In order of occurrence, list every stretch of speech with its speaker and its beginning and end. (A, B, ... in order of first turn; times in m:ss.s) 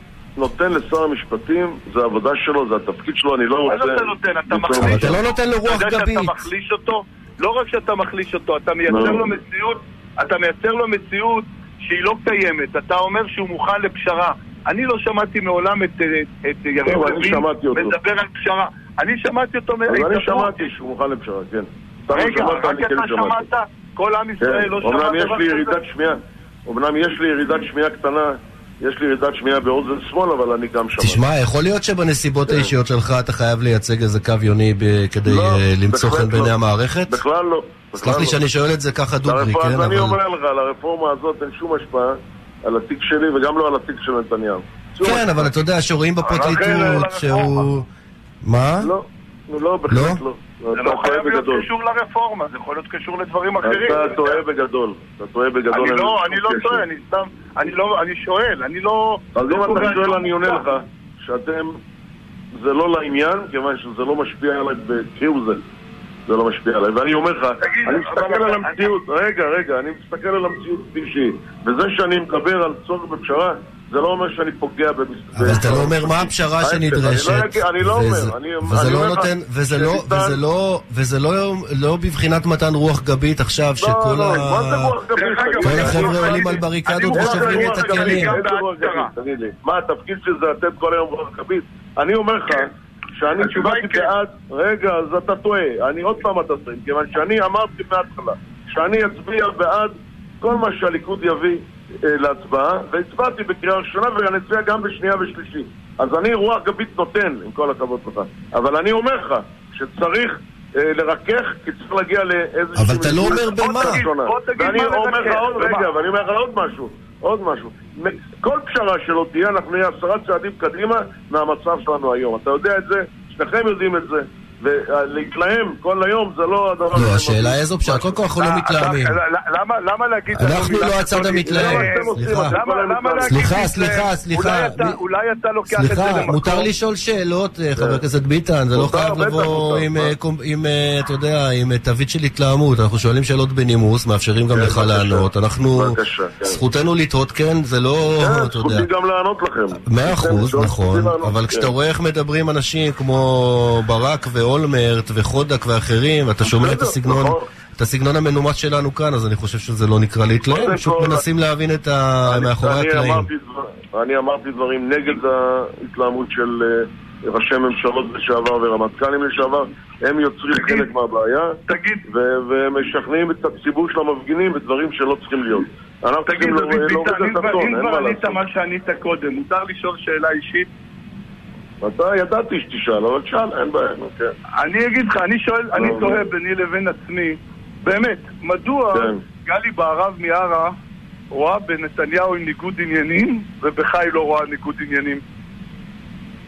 0:00.4-0:05.2 A
0:03.6-0:20.7 B
0:04.8-0:06.4 C
0:08.9-0:09.3 A
0:16.8-0:18.0 A
0:19.9-0:23.4 A
0:22.1-0:25.8 B
0:24.4-0:31.2 A
0:31.0-0:37.2 C
0:32.5-0:32.7 A
0:35.3-0:36.5 A
0:37.1-0:38.4 A
0:38.0-0:40.2 C
0:39.2-0:45.5 A
0:45.0-0:47.8 C
0:46.2-0:47.7 B
0:46.3-0:47.1 A
0:48.4-0:48.9 C
0:48.8-0:51.7 A
0:49.9-0:50.2 C
0:50.7-0:54.4 B
0:53.6-0:56.8 A
0:55.7-1:00.6 B
0:59.4-1:01.8 A
1:02.6-1:05.6 A
1:06.3-1:20.4 A
1:07.6-1:08.9 B
1:15.4-1:25.0 C
1:23.8-1:26.5 A
1:25.2-1:29.1 B
1:25.6-1:28.4 C
1:27.1-2:08.2 A
1:33.4-1:34.1 B
1:52.8-1:54.0 C
1:53.6-1:55.9 B
2:06.9-2:09.2 C
2:08.4-2:16.7 B
2:10.3-2:12.5 C
2:11.2-2:13.6 A
2:13.3-2:15.0 C
2:15.7-2:28.9 C
2:17.8-2:18.0 A
2:18.7-2:20.1 A
2:24.5-2:26.6 A
2:28.2-2:31.7 A
2:29.9-2:43.3 C
2:36.4-2:37.5 A
2:40.4-2:41.2 A
2:42.2-2:58.4 A
2:50.5-2:50.9 B
2:51.7-2:52.0 B
2:56.3-3:00.7 B
3:01.8-3:04.3 A
3:04.6-3:10.8 B
3:05.8-3:06.2 A
3:08.9-3:09.2 A
3:11.3-3:15.2 B